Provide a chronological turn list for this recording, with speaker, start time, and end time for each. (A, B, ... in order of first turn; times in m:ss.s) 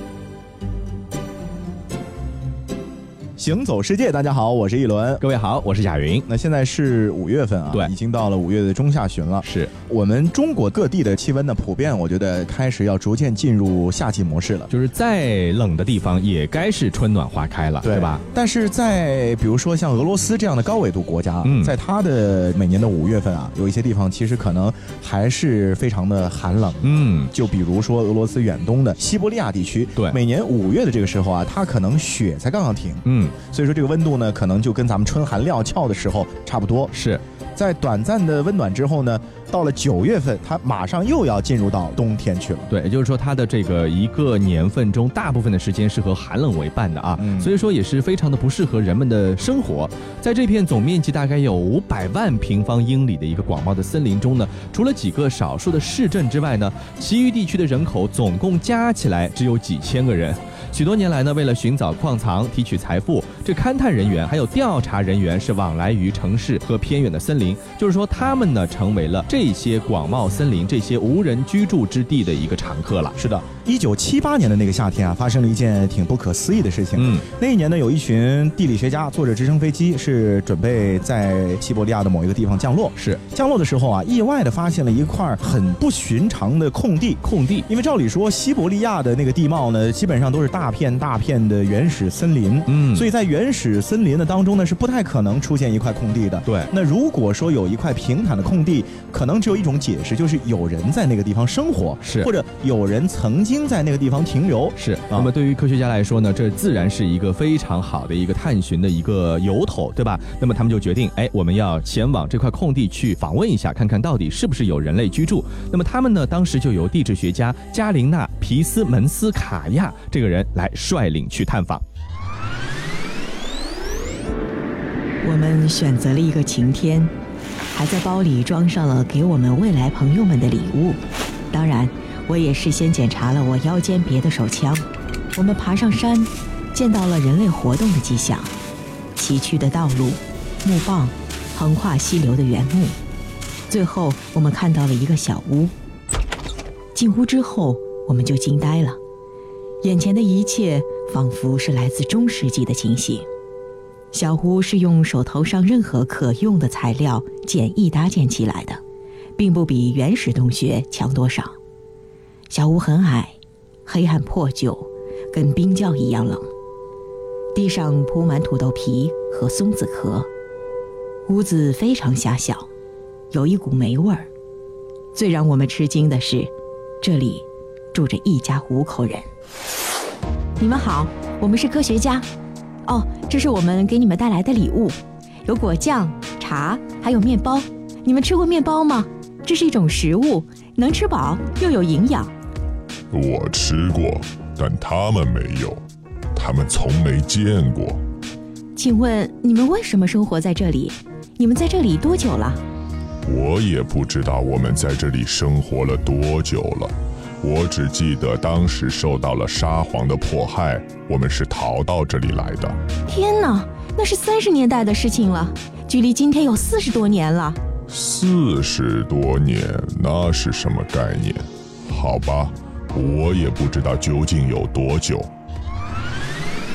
0:03.4-0:05.2 A
0:05.2-0:06.2 B
0:06.3-0:14.7 A
0:09.4-0:09.7 B
0:14.7-0:18.2 B
0:17.8-0:36.9 A
0:21.4-0:21.7 B
0:26.8-0:27.3 B
0:33.0-0:33.4 B
0:36.9-0:37.2 B
0:37.5-0:42.7 A
0:42.7-1:13.2 B
0:47.2-0:47.5 A
1:13.2-1:45.3 A
1:16.9-1:17.3 B
1:27.2-1:27.6 B
1:32.7-1:33.1 B
1:36.4-1:36.7 B
1:42.0-1:42.3 B
1:44.8-2:01.8 B
2:05.2-2:07.1 C
2:07.7-2:11.0 C
2:11.5-2:18.5 C
2:19.2-2:23.0 C
2:23.7-2:25.7 C
2:26.9-2:29.0 C
2:29.8-2:33.2 C
2:34.1-2:38.8 C
2:39.4-2:41.6 C
2:42.5-2:46.5 C
2:47.5-2:50.3 C
2:51.3-2:52.7 C
2:53.3-2:54.3 C
2:55.1-2:56.5 C
2:57.0-2:59.2 C
3:00.6-3:02.3 C
3:02.8-3:12.3 C
3:13.1-3:15.8 D
3:16.3-3:18.0 D
3:18.8-3:22.6 C
3:23.2-3:32.8 D
3:33.1-3:37.6 C
3:37.9-3:45.3 D